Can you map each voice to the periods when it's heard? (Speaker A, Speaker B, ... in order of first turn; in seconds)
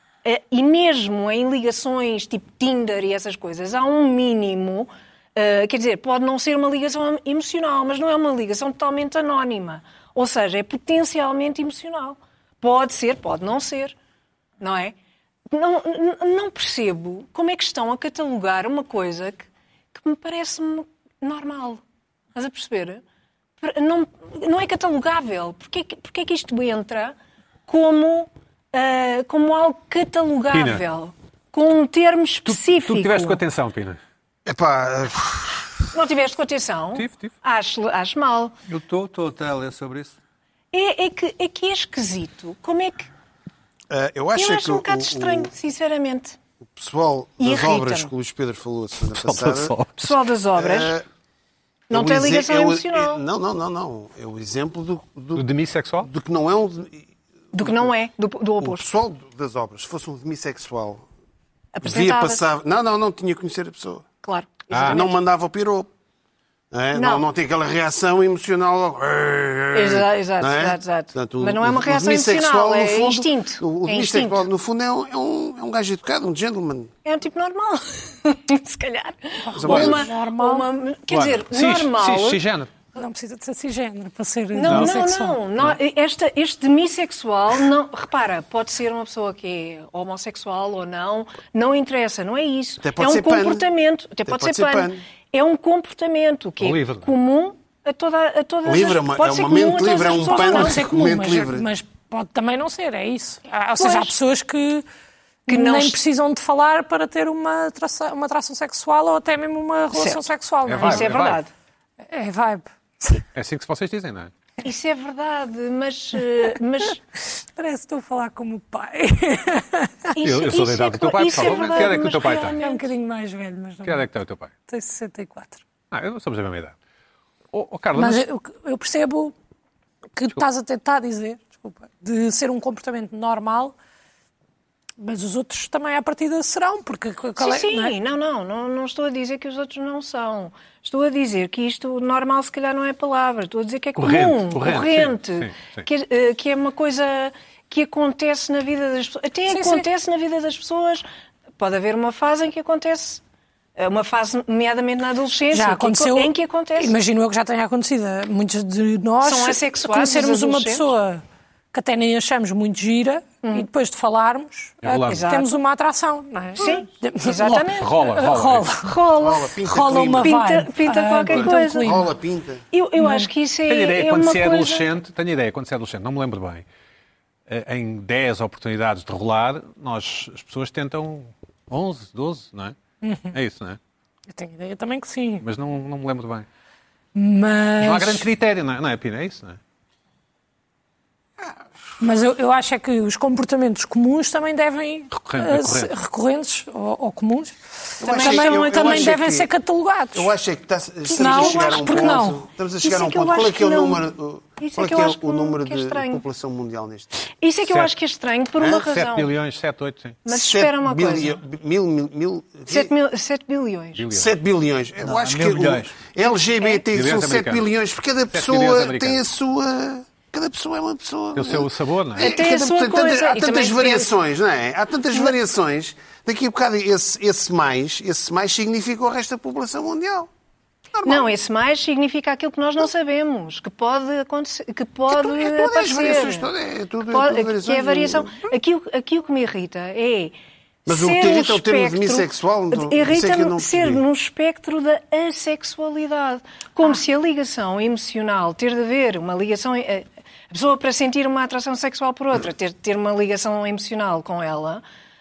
Speaker A: 0.2-13.9, 14.6-14.9, 15.5-21.8, 22.4-23.0, 23.6-27.2, 27.7-33.4, 35.9-38.5, 40.7-43.1, 44.4-46.4, 47.4-48.1, 50.0-50.9, 51.9-53.2, 57.5-58.9, 61.8-62.4, 64.2-65.2, 66.9-67.2, 69.7-74.5, 77.0-82.4, 84.5-100.9, 103.8-104.2, 105.5-106.0, 109.9-110.2, 110.8-111.5, 114.6-117.0, 120.1-122.9, 137.4-151.1, 151.6-153.2, 153.8-157.0, 159.2-160.9, 163.4-163.7, 165.0-165.5, 166.5-167.9, 168.8-169.6, 170.2-172.1, 172.7-174.9, 198.1-199.1, 201.1-202.2, 202.8-204.1, 204.6-206.2, 207.4-209.3, 210.2-211.4, 212.7-214.1, 216.6-216.8, 222.2-224.1, 231.0-236.5, 237.1-254.8
Speaker B: 30.5-30.8, 32.5-34.0, 37.0-37.3, 49.1-50.2, 55.4-56.1, 64.7-65.0, 79.7-80.0, 81.1-82.7, 84.6-85.1, 96.6-97.1, 110.7-111.4, 113.3-114.3, 120.2-122.6, 123.8-124.5, 125.9-126.8, 127.5-128.2, 144.0-145.9, 164.8-165.2, 167.5-168.7, 173.7-176.7, 177.5-182.8, 183.3-183.8, 185.4-186.5, 187.8-189.6, 195.1-195.9, 207.7-207.9, 208.7-210.2, 213.9-214.3, 216.9-217.7, 218.3-219.2, 221.3-222.3
Speaker C: 34.5-35.8, 43.9-45.5, 46.7-49.8, 50.5-51.0, 51.9-55.5, 56.0-57.9, 58.6-61.0, 61.8-64.1, 64.8-65.9, 66.7-76.9, 79.6-80.1, 92.8-93.7, 94.2-95.0, 98.7-101.7, 169.2-170.4, 171.3-172.7, 198.0-199.5, 200.2-207.2, 210.3-212.9, 214.1-230.3, 230.9-231.3, 235.1-238.5, 240.9-244.0
Speaker D: 38.7-40.2, 215.0-216.0
Speaker E: 79.4-80.7, 83.0-85.4, 100.2-104.9, 105.5-111.3, 112.1-113.2, 117.3-120.1, 121.6-124.1, 124.7-125.6, 128.0-129.3, 130.1-133.8, 135.0-137.9, 149.5-149.9, 155.5-169.0, 169.6-172.1, 173.0-173.3, 183.0-183.3, 184.3-185.4, 187.2-188.3, 192.0-200.3, 201.1-202.4